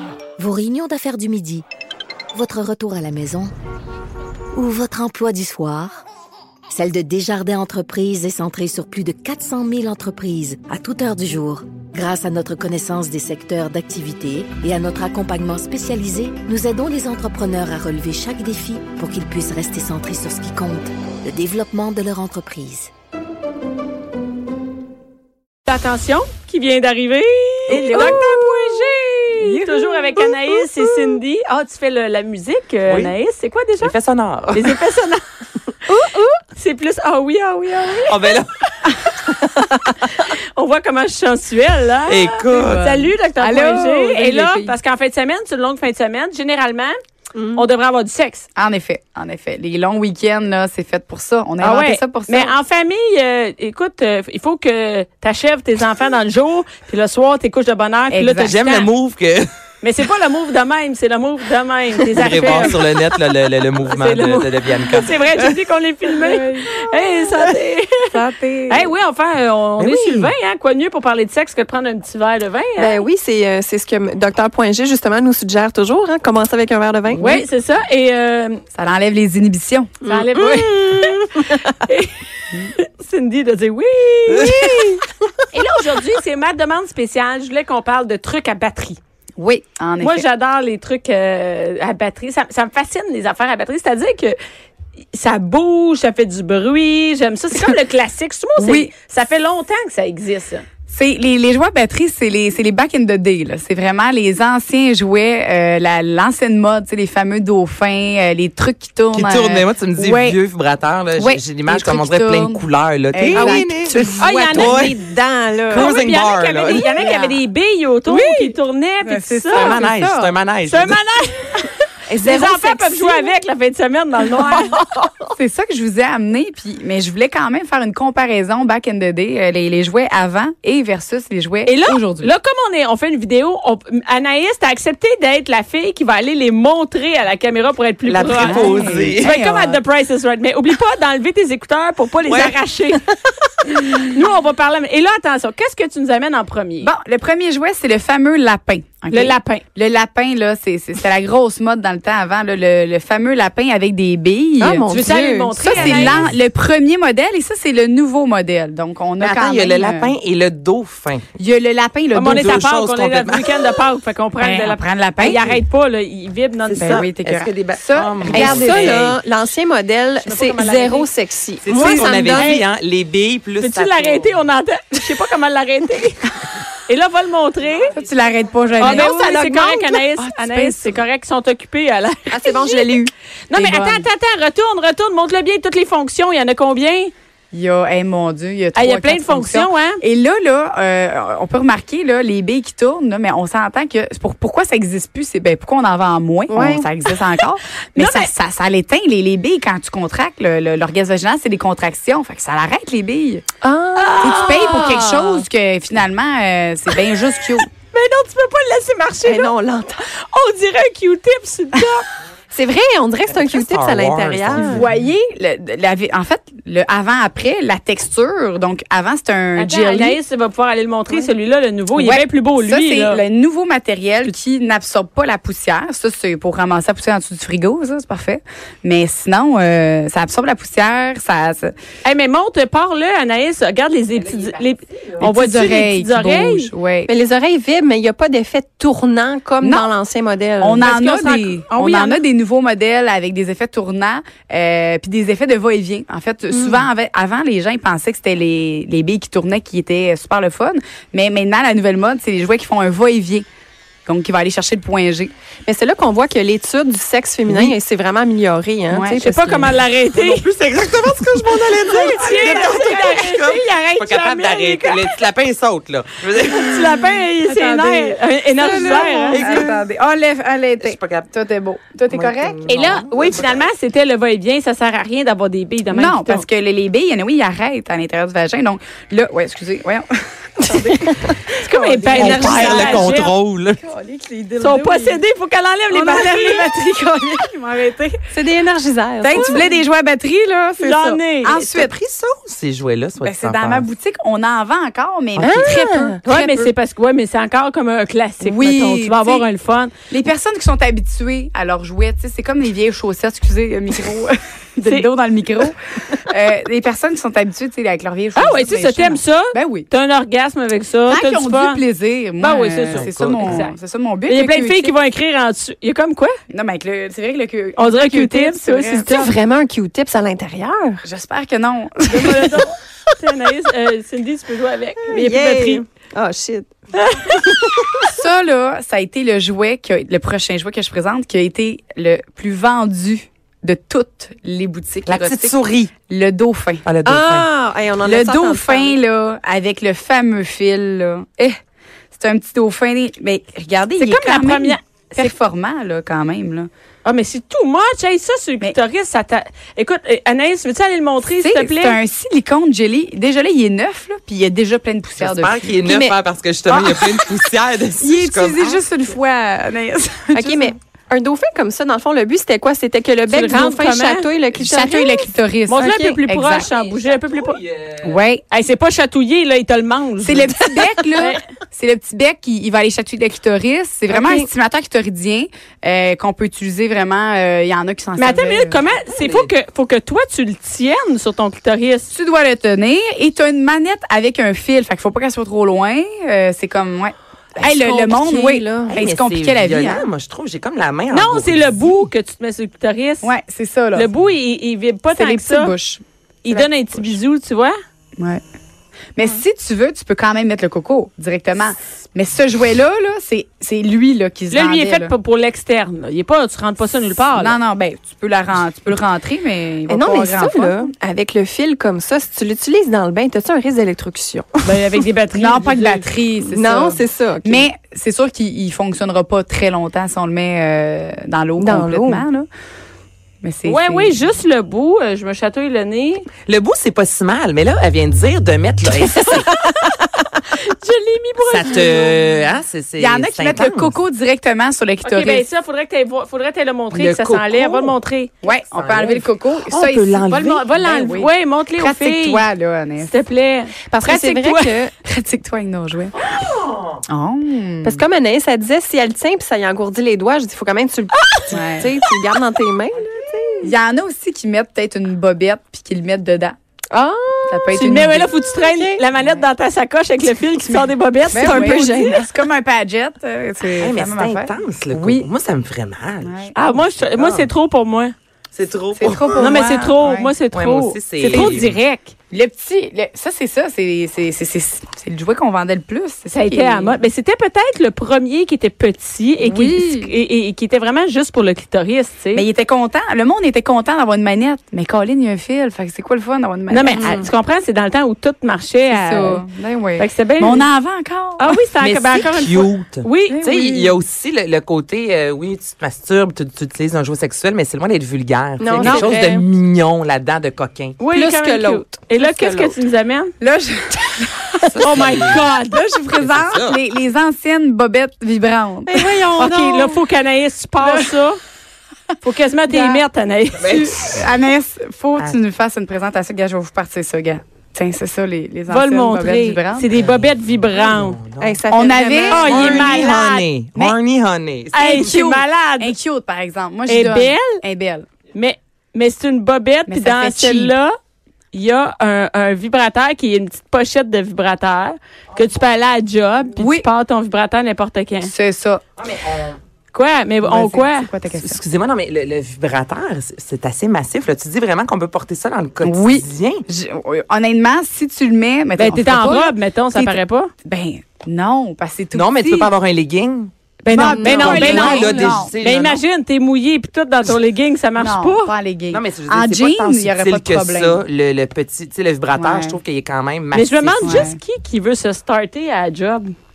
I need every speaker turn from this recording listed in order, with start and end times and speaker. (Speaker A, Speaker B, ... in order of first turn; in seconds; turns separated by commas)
Speaker A: 0.4-1.6, Speaker A: 2.3-3.5, Speaker A: 4.5-6.0, Speaker A: 6.7-22.9, Speaker B: 25.7-33.9, Speaker C: 27.7-31.1, Speaker D: 32.9-33.1, Speaker D: 33.8-34.8, Speaker B: 34.5-35.2, Speaker C: 35.9-36.4, Speaker B: 36.5-38.3, Speaker D: 38.0-38.5, Speaker B: 40.0-47.0, Speaker D: 42.1-43.1, Speaker E: 42.5-44.8, Speaker B: 47.5-48.5, Speaker E: 48.6-52.5, Speaker B: 51.6-58.9, Speaker E: 58.1-58.6, Speaker D: 58.5-59.5, Speaker B: 59.8-62.9, Speaker D: 62.1-65.6, Speaker B: 63.9-68.2, Speaker E: 66.2-66.8, Speaker E: 68.1-68.9, Speaker B: 68.7-73.0, Speaker D: 69.8-70.3, Speaker C: 72.8-77.3, Speaker E: 77.1-77.4, Speaker B: 77.2-78.6, Speaker E: 78.7-80.6, Speaker B: 80.1-84.9, Speaker C: 80.1-81.8, Speaker C: 84.4-85.0, Speaker B: 85.5-89.0, Speaker E: 89.4-90.2, Speaker B: 90.0-94.4, Speaker B: 95.1-100.7, Speaker E: 98.6-98.9, Speaker E: 100.9-110.4, Speaker D: 109.1-115.0, Speaker E: 111.2-114.2, Speaker C: 113.3-115.9, Speaker B: 114.2-114.9, Speaker D: 115.7-116.9, Speaker B: 115.7-119.8, Speaker E: 116.8-117.4, Speaker C: 118.1-118.5, Speaker E: 119.0-120.3, Speaker D: 119.5-121.0, Speaker B: 120.7-121.6, Speaker C: 122.1-123.3, Speaker B: 122.2-124.7, Speaker C: 124.2-125.3, Speaker E: 125.3-132.3, Speaker B: 131.7-143.0, Speaker D: 138.1-139.3, Speaker E: 138.2-139.8, Speaker D: 142.2-142.6, Speaker B: 143.7-146.9, Speaker E: 146.8-154.8, Speaker B: 149.1-149.6, Speaker C: 154.6-155.5, Speaker B: 154.9-156.2, Speaker E: 155.6-160.1, Speaker D: 155.7-156.4, Speaker D: 159.2-161.3, Speaker E: 161.4-162.6, Speaker B: 162.1-167.1, Speaker D: 162.3-163.6, Speaker E: 164.4-165.4, Speaker D: 166.7-169.2, Speaker E: 166.8-168.9, Speaker C: 168.3-172.5, Speaker B: 170.2-171.1, Speaker D: 171.6-174.3, Speaker B: 172.3-172.7, Speaker B: 173.6-176.3, Speaker B: 176.9-177.9, Speaker E: 177.9-181.0, Speaker B: 178.8-182.9, Speaker C: 178.9-179.2, Speaker C: 182.3-183.1, Speaker B: 183.5-187.1, Speaker E: 183.5-184.1, Speaker E: 187.5-203.4, Speaker B: 188.8-190.0, Speaker C: 196.5-196.9, Speaker B: 197.9-198.3, Speaker C: 203.6-205.4, Speaker B: 204.0-204.6, Speaker E: 204.2-207.7, Speaker B: 207.9-209.5, Speaker C: 209.2-210.1, Speaker B: 210.1-212.1, Speaker C: 212.5-214.8, Speaker D: 213.3-214.9, Speaker E: 214.6-220.2, Speaker B: 219.6-223.2, Speaker E: 221.9-231.8, Speaker B: 232.0-236.7, Speaker D: 234.2-235.2, Speaker E: 235.2-237.1, Speaker C: 237.1-240.9, Speaker E: 239.6-239.9, Speaker E: 240.6-253.5, Speaker B: 240.8-242.2, Speaker C: 246.5-246.8, Speaker E: 254.1-255.3, Speaker C: 255.7-259.7, Speaker E: 258.9-259.2, Speaker B: 259.2-260.4, Speaker D: 260.1-267.0, Speaker B: 262.0-265.1, Speaker E: 262.3-262.9, Speaker B: 266.5-269.5, Speaker E: 267.5-272.7, Speaker C: 268.6-269.7, Speaker D: 269.3-269.8, Speaker D: 270.8-271.3, Speaker D: 272.1-273.6, Speaker B: 272.6-276.4, Speaker E: 275.9-283.2, Speaker C: 280.7-281.4, Speaker B: 281.6-283.3, Speaker D: 282.1-283.8, Speaker E: 283.8-285.2, Speaker B: 284.6-286.7, Speaker E: 285.9-288.2, Speaker C: 288.3-289.8, Speaker E: 289.2-291.9, Speaker B: 290.8-291.8, Speaker D: 291.7-293.9, Speaker E: 293.2-296.7, Speaker C: 295.4-296.2, Speaker B: 296.2-299.9, Speaker E: 298.4-299.4, Speaker E: 300.1-309.9, Speaker B: 308.4-311.8, Speaker E: 311.1-314.9, Speaker B: 312.4-313.8, Speaker D: 312.9-313.6, Speaker B: 314.3-316.4, Speaker E: 316.5-319.3, Speaker B: 317.8-319.3, Speaker C: 319.1-321.0, Speaker E: 321.0-322.6, Speaker B: 322.1-325.9, Speaker C: 325.1-326.7, Speaker B: 327.0-327.3, Speaker C: 327.3-328.1, Speaker E: 328.1-336.9, Speaker D: 335.1-335.9, Speaker D: 336.9-337.5, Speaker C: 337.1-338.9, Speaker E: 338.0-341.6, Speaker E: 342.1-346.7, Speaker B: 344.0-345.3, Speaker B: 347.0-352.0, Speaker E: 351.2-355.7, Speaker D: 355.2-358.8, Speaker C: 355.9-356.2, Speaker E: 356.7-360.8, Speaker C: 360.4-366.2, Speaker B: 363.3-364.3, Speaker E: 364.5-366.7, Speaker B: 365.7-367.6, Speaker D: 366.7-368.2, Speaker E: 368.0-368.4, Speaker B: 368.5-370.5, Speaker E: 370.2-378.8, Speaker C: 370.8-371.2, Speaker C: 374.1-374.5, Speaker B: 378.2-382.1, Speaker D: 379.1-379.5, Speaker E: 382.1-390.1, Speaker C: 387.6-389.0, Speaker D: 388.9-391.8, Speaker B: 391.1-393.3, Speaker E: 393.2-394.1, Speaker B: 393.9-395.7, Speaker E: 395.1-396.7, Speaker B: 396.4-397.8, Speaker E: 398.2-398.4, Speaker E: 399.1-405.1, Speaker B: 404.5-407.6, Speaker E: 407.3-410.9, Speaker C: 409.9-414.7, Speaker B: 414.6-416.1, Speaker E: 415.3-422.5, Speaker C: 416.5-417.6, Speaker C: 421.6-422.2, Speaker E: 423.4-424.1, Speaker B: 423.6-426.3, Speaker D: 426.5-429.5, Speaker C: 429.1-429.7, Speaker B: 430.5-432.2, Speaker D: 431.4-434.0, Speaker E: 433.0-435.4, Speaker B: 435.0-438.3, Speaker D: 436.9-438.0, Speaker E: 438.4-443.1, Speaker D: 438.7-440.6, Speaker B: 440.3-442.4, Speaker B: 443.0-444.8, Speaker C: 443.9-444.9, Speaker E: 445.0-446.1, Speaker D: 446.4-446.9, Speaker E: 447.1-448.0, Speaker C: 447.8-453.7, Speaker E: 451.5-451.9, Speaker E: 453.6-456.6, Speaker C: 456.9-457.8, Speaker E: 457.5-458.3, Speaker B: 457.7-462.0, Speaker C: 458.6-459.0, Speaker E: 460.7-465.3, Speaker C: 461.3-462.3, Speaker D: 463.8-467.5, Speaker E: 466.2-466.6, Speaker B: 466.5-468.1, Speaker D: 468.5-469.6, Speaker E: 468.9-470.3, Speaker B: 469.4-472.1, Speaker D: 470.5-471.8, Speaker E: 471.3-471.6, Speaker E: 472.3-476.9, Speaker B: 476.3-482.5, Speaker E: 479.4-480.1, Speaker E: 482.3-487.2, Speaker B: 486.7-489.4, Speaker C: 486.9-487.2, Speaker E: 488.9-491.5, Speaker B: 490.0-490.7, Speaker B: 491.4-493.4, Speaker D: 491.8-501.0, Speaker E: 493.3-494.0, Speaker C: 498.6-499.4, Speaker B: 498.8-499.1, Speaker B: 501.0-503.3, Speaker C: 501.1-502.8, Speaker E: 503.4-505.2, Speaker D: 504.7-505.5, Speaker B: 504.8-505.9, Speaker E: 505.7-509.1, Speaker D: 506.2-506.8, Speaker C: 508.9-510.0, Speaker B: 509.4-511.4, Speaker E: 510.8-511.1, Speaker B: 512.2-513.7, Speaker E: 512.7-513.0, Speaker D: 513.6-514.3, Speaker E: 513.6-519.9, Speaker B: 518.7-521.2, Speaker D: 519.9-521.6, Speaker C: 521.4-522.9, Speaker E: 521.7-522.9, Speaker B: 522.3-523.5, Speaker D: 522.4-525.2, Speaker B: 524.7-526.0, Speaker E: 524.8-528.1, Speaker B: 526.9-527.6, Speaker B: 528.3-531.0, Speaker E: 529.9-530.7, Speaker B: 531.5-538.3, Speaker E: 536.6-536.9, Speaker E: 538.2-538.8, Speaker D: 539.0-539.6, Speaker B: 539.9-541.1, Speaker E: 540.4-541.6, Speaker D: 541.4-546.7, Speaker E: 545.8-552.7, Speaker B: 548.8-550.5, Speaker D: 552.1-553.5, Speaker B: 553.8-558.5, Speaker E: 553.9-555.5, Speaker C: 554.0-555.3, Speaker D: 554.0-556.0, Speaker E: 558.0-561.0, Speaker D: 558.9-564.3, Speaker E: 562.4-562.8, Speaker B: 563.5-566.4, Speaker E: 564.0-564.4